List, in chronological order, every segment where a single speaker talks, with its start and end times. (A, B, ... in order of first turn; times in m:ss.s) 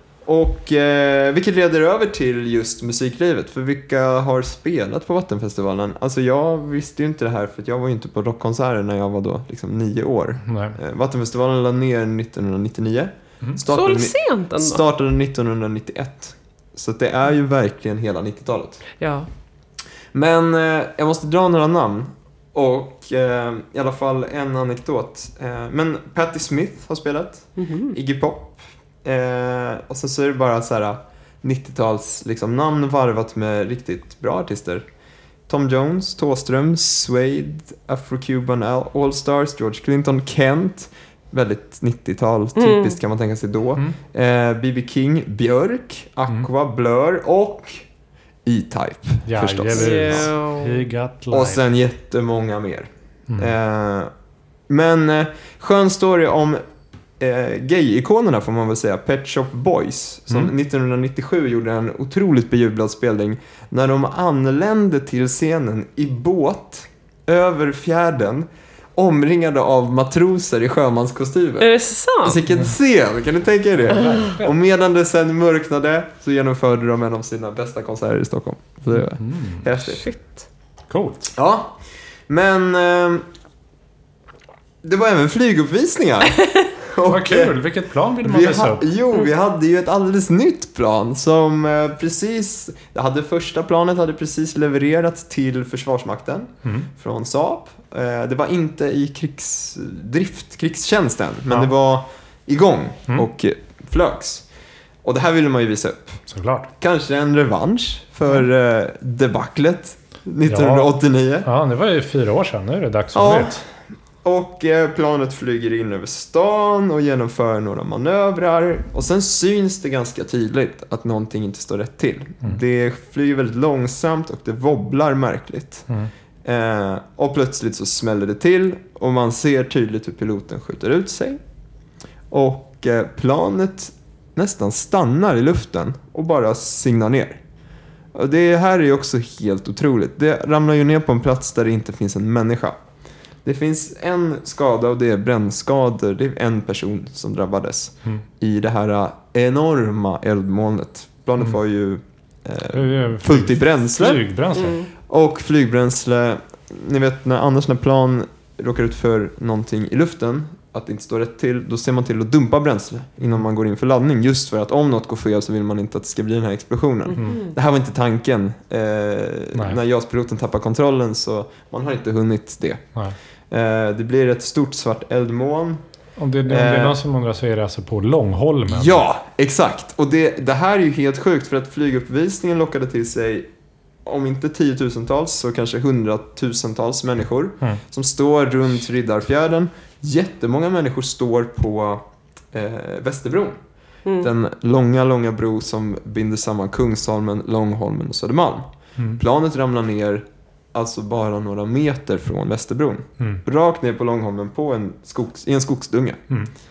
0:00.2-0:18.8 A
0:10.5-0:10.8 B
0:13.7-0:14.8 C
0:19.0-0:19.3 C
0:20.1-0:34.9 A
0:27.6-0:28.0 C
0:35.5-0:47.8 A
0:42.6-0:43.0 C
0:48.4-0:50.3 A
0:49.3-0:51.6 B
0:49.7-0:50.8 C
0:51.3-0:54.1 A
0:54.7-0:56.6 A
0:57.2-1:11.7 A
1:11.6-1:12.4 C
1:12.2-1:20.0 A
1:13.9-1:14.5 B
1:19.2-1:19.7 B
1:19.9-1:20.4 C
1:20.9-1:21.3 B
1:21.4-1:23.3 A
1:24.8-1:27.6 A
1:27.0-1:28.9 B
1:28.2-1:44.5 A
1:45.0-1:46.2 A
1:46.3-1:46.7 B
1:46.8-1:51.5 A
1:50.5-1:50.9 B
1:51.4-1:53.6 B
1:53.1-1:53.6 A
1:54.2-2:05.9 A
2:06.4-2:11.4 A
2:12.3-2:17.4 A
2:18.1-2:22.8 A
2:23.4-2:34.2 A
2:32.7-2:34.8 B
2:34.6-2:34.9 C
2:35.0-2:52.8 A
2:47.1-2:47.5 C
2:53.5-2:55.8 A
2:56.2-2:59.0 B
2:56.5-2:57.0 A
2:58.7-3:03.5 A
3:04.0-3:13.6 A
3:14.2-3:26.2 A